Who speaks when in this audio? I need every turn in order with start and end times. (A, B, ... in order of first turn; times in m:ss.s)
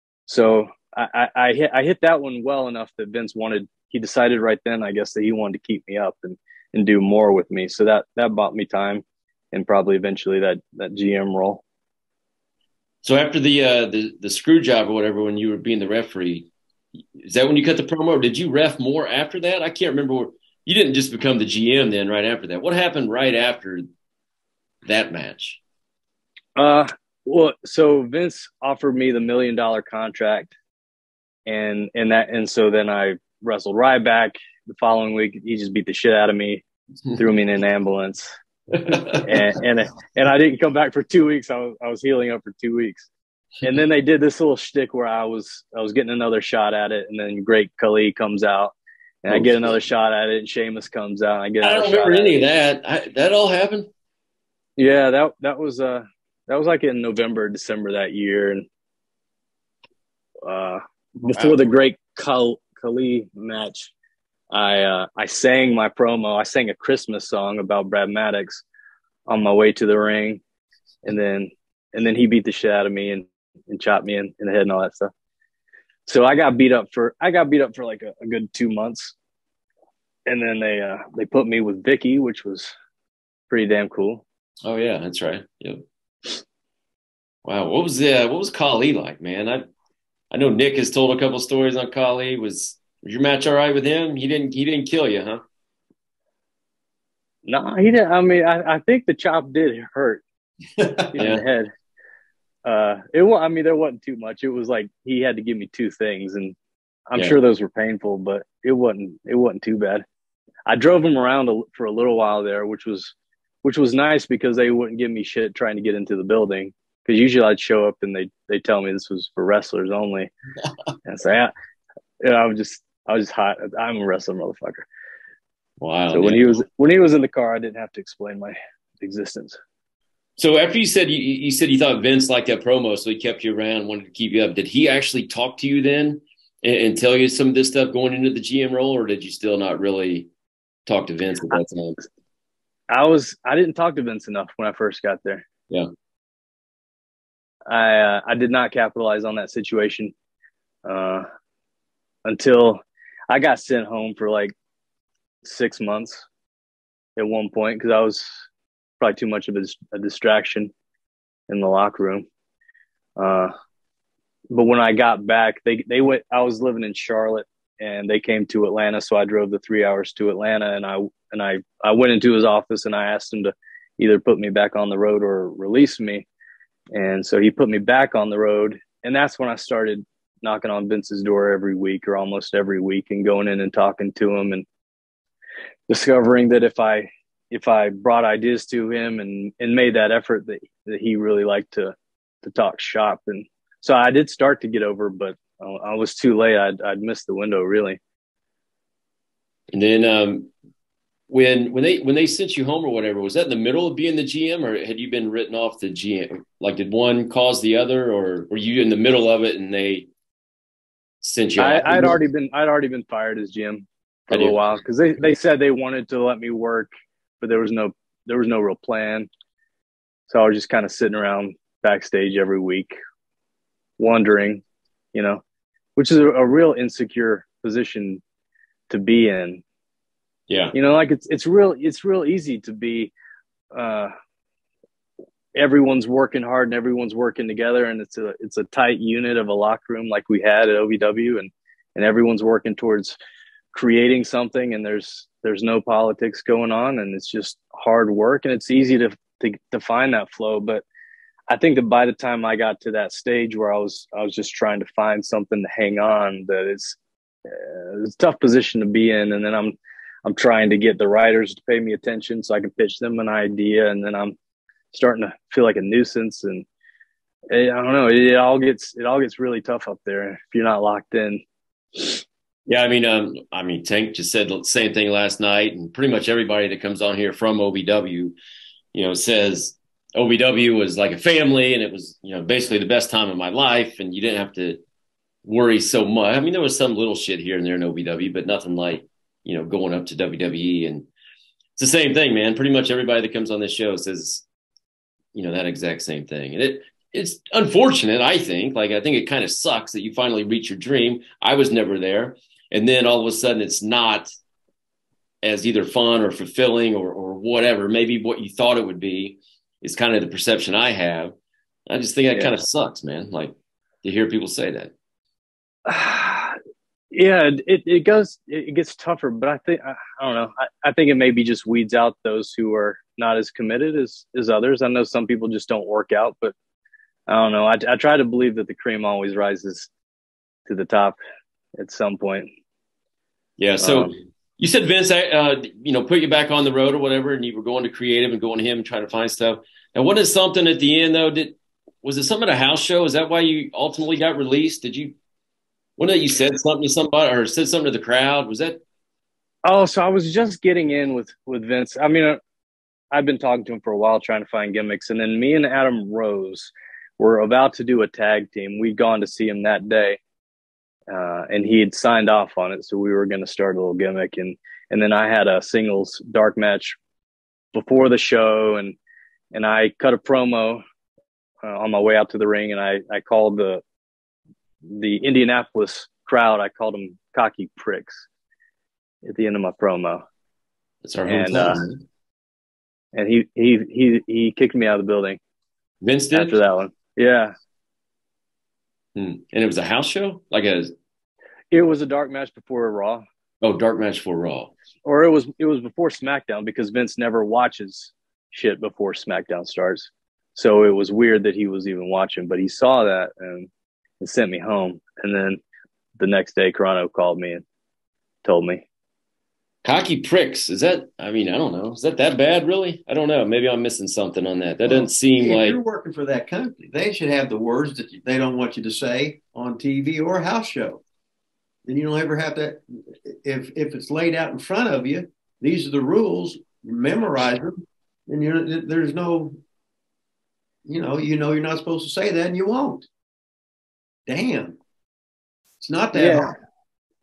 0:00.3-0:11.6 A
0:13.0-0:16.5 B
0:17.2-0:23.8 B
0:24.8-0:25.6 B
0:26.6-0:30.5 A
0:31.5-0:36.6 A
0:37.1-0:38.3 A
0:38.7-0:39.4 B
0:39.2-0:43.1 A
0:43.6-0:52.3 A
0:49.3-0:49.6 B
0:51.6-0:53.9 B
0:54.8-0:58.6 A
1:00.4-1:03.9 A
1:04.5-1:08.6 A
1:09.3-1:10.4 A
1:11.0-1:15.1 A
1:16.1-1:19.1 A
1:20.3-1:22.7 A
1:23.5-1:24.2 A
1:24.6-1:25.8 B
1:27.4-1:29.6 B
1:30.3-1:35.4 B
1:37.4-1:40.2 A
1:41.1-1:41.7 A
1:41.1-1:41.4 B
1:42.6-1:46.6 A
1:47.1-1:50.0 A
1:50.6-1:53.1 A
1:53.6-2:00.3 A
2:01.0-2:01.5 A
2:02.2-2:04.8 A
2:05.8-2:06.6 B
2:06.1-2:09.6 A
2:10.4-2:20.3 B
2:20.8-2:22.0 B
2:22.9-2:25.4 A
2:27.7-2:30.1 A
2:30.8-2:31.2 A
2:32.2-2:34.5 A
2:35.4-2:36.2 A
2:37.2-2:38.4 A
2:39.0-2:40.7 A
2:41.5-2:42.2 A
2:43.2-2:43.5 A
2:44.5-2:56.2 A
2:56.9-3:04.6 A
3:05.9-3:18.0 A
3:19.7-3:20.5 B
3:21.3-3:30.1 B
3:31.2-3:32.2 B
3:31.6-3:36.9 A
3:34.3-3:34.6 B
3:37.4-3:39.3 A
3:40.3-3:43.0 A
3:44.0-3:44.6 A
3:45.1-3:45.4 A
3:46.0-3:48.2 A
3:48.9-3:49.6 A
3:50.5-3:50.7 B
3:50.7-3:53.1 A
3:53.7-3:54.1 A
3:55.5-4:03.2 A
4:03.7-4:10.8 A
4:11.5-4:24.3 A
4:24.9-4:26.6 A
4:27.5-4:31.4 A
4:32.0-4:32.2 A
4:32.7-4:38.4 B
4:38.9-4:44.8 B
4:45.4-4:51.1 B
4:51.8-4:54.4 B
4:55.3-5:04.3 B
5:05.4-5:11.3 B
5:11.9-5:14.9 B
5:15.8-5:16.6 A
5:17.1-5:26.5 A
5:27.3-5:29.9 A
5:30.7-5:31.2 A
5:31.7-5:32.5 A
5:33.6-5:45.1 B
5:33.8-5:34.1 A
5:46.0-5:48.8 B
5:49.6-5:52.4 A
5:53.1-6:00.2 A
6:01.1-6:07.0 A
6:07.7-6:08.9 A
6:09.5-6:10.8 A
6:11.6-6:13.8 A
6:14.8-6:18.3 A
6:19.2-6:20.2 A
6:21.0-6:22.0 B
6:21.3-6:21.8 A
6:23.1-6:25.4 A
6:26.0-6:26.6 B
6:26.3-6:27.5 A
6:29.2-6:30.9 B
6:31.7-6:33.2 A
6:33.6-6:34.7 B
6:35.0-6:43.7 A
6:44.2-6:45.6 A
6:46.2-6:47.6 A
6:48.4-6:48.8 A
6:49.8-6:55.8 B
6:54.8-7:01.0 C
7:01.8-7:09.5 C
7:10.8-7:13.1 C
7:14.3-7:14.8 C
7:15.8-7:16.5 C
7:16.1-7:16.5 A